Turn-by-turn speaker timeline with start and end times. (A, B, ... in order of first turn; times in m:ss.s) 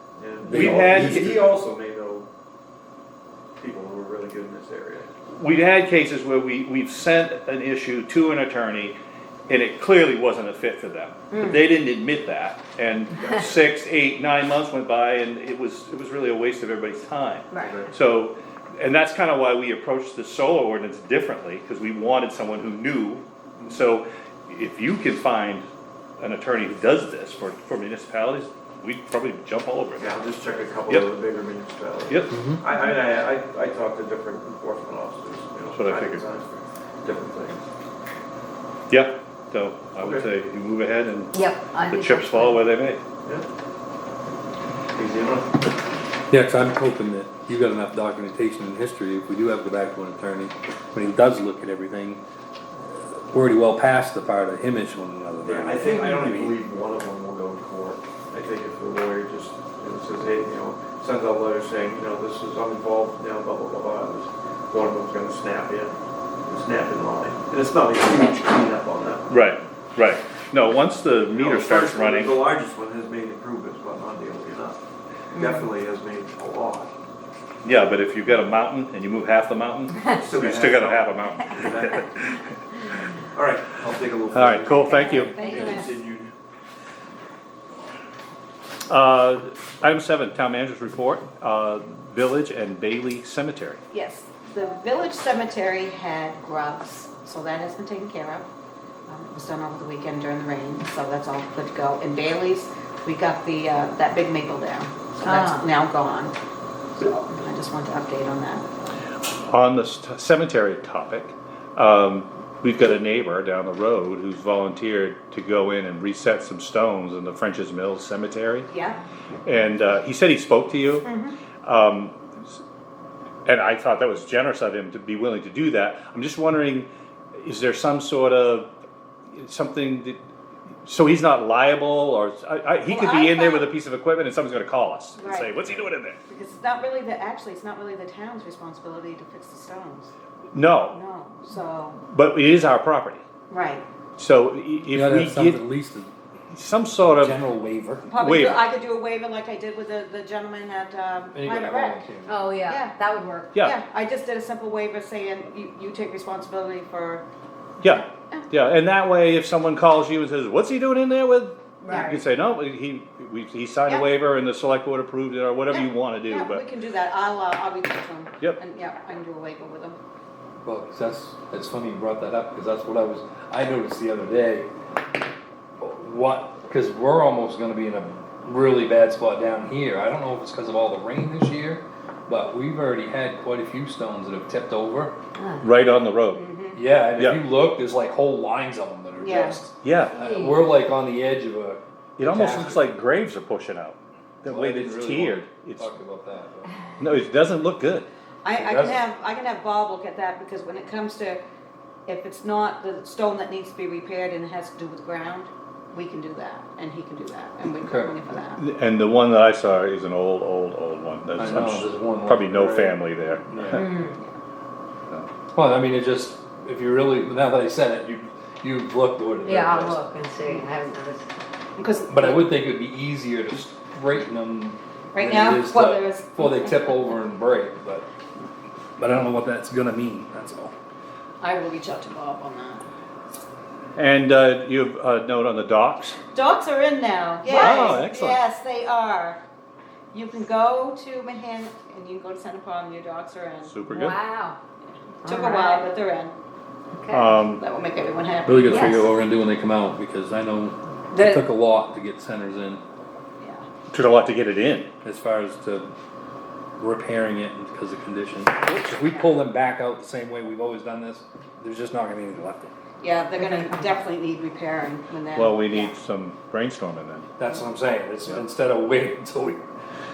0:00.2-0:02.3 A
0:00.4-0:01.5 B
0:00.5-0:01.4 C
0:03.6-0:05.1 A
0:05.3-0:09.0 C
0:09.5-0:25.7 C
0:11.3-0:11.6 D
0:17.6-0:17.9 A
0:26.2-0:30.2 C
0:30.0-0:37.6 A
0:32.1-0:32.4 C
0:32.3-0:32.6 B
0:35.7-0:36.2 C
0:38.9-0:41.4 C
0:40.0-0:40.2 A
0:41.3-0:42.6 E
0:41.9-0:43.0 C
0:44.9-0:45.7 A
0:46.3-0:52.2 B
0:52.9-0:56.6 B
0:55.4-1:05.9 A
1:06.4-1:09.3 A
1:09.3-1:12.4 C
1:11.3-1:14.8 A
1:15.3-1:15.7 D
1:15.3-1:16.9 A
1:17.6-1:22.5 C
1:20.1-1:22.1 A
1:23.3-1:26.3 A
1:24.3-1:25.4 C
1:24.8-1:25.8 D
1:25.0-1:25.9 E
1:28.9-1:33.8 C
1:33.9-1:38.4 D
1:39.1-1:46.3 D
1:45.2-1:45.7 E
1:47.0-1:48.7 D
1:49.4-1:58.7 C
1:58.7-1:59.0 D
1:59.4-2:01.1 C
2:01.0-2:01.4 D
2:01.6-2:02.2 C
2:03.4-2:08.7 C
2:09.3-2:10.2 C
2:10.8-2:16.2 C
2:12.9-2:13.7 D
2:15.2-2:15.5 D
2:16.3-2:20.1 D
2:20.5-2:21.0 C
2:20.9-2:22.0 D
2:22.1-2:23.2 C
2:23.5-2:23.8 D
2:24.2-2:25.6 C
2:24.9-2:26.1 B
2:26.5-2:27.4 C
2:27.2-2:28.0 B
2:28.1-2:32.1 D
2:28.1-2:28.6 C
2:31.3-2:32.3 B
2:32.2-2:33.5 E
2:32.7-2:33.0 D
2:33.5-2:37.2 D
2:37.8-2:46.6 C
2:37.9-2:38.5 D
2:41.8-2:42.2 E
2:41.9-2:42.2 D
2:45.7-2:50.0 D
2:50.6-2:54.7 B
2:55.8-3:05.2 B
3:05.6-3:06.4 C
3:06.3-3:06.8 D
3:06.7-3:12.9 B
3:07.2-3:07.4 C
3:09.2-3:09.6 D
3:09.8-3:10.1 C
3:10.1-3:10.6 E
3:12.2-3:15.9 C
3:14.4-3:16.8 B
3:17.0-3:18.1 C
3:18.4-3:21.4 D
3:18.5-3:19.0 B
3:22.0-3:28.6 D
3:27.8-3:28.2 B
3:28.6-3:33.9 C
3:31.4-3:33.8 B
3:33.7-3:34.1 E
3:33.8-3:34.3 D
3:35.5-3:40.0 B
3:39.4-3:41.3 E
3:41.8-3:42.6 D
3:42.1-3:48.1 B
3:45.1-3:46.9 D
3:49.0-3:50.7 B
3:51.4-3:52.9 D
3:54.0-3:56.2 C
3:56.3-3:59.4 D
3:57.4-3:58.4 C
4:00.1-4:03.8 D
4:03.6-4:04.2 C
4:03.9-4:04.6 E
4:05.2-4:06.3 D
4:05.2-4:05.9 E
4:07.0-4:07.3 E
4:07.1-4:07.6 C
4:07.4-4:09.1 D
4:08.4-4:12.8 B
4:08.7-4:09.0 E
4:11.1-4:11.4 D
4:13.4-4:13.6 D
4:13.9-4:14.9 C
4:15.0-4:15.9 B
4:16.8-4:22.7 B
4:23.0-4:25.9 D
4:25.3-4:27.3 C
4:27.4-4:29.6 B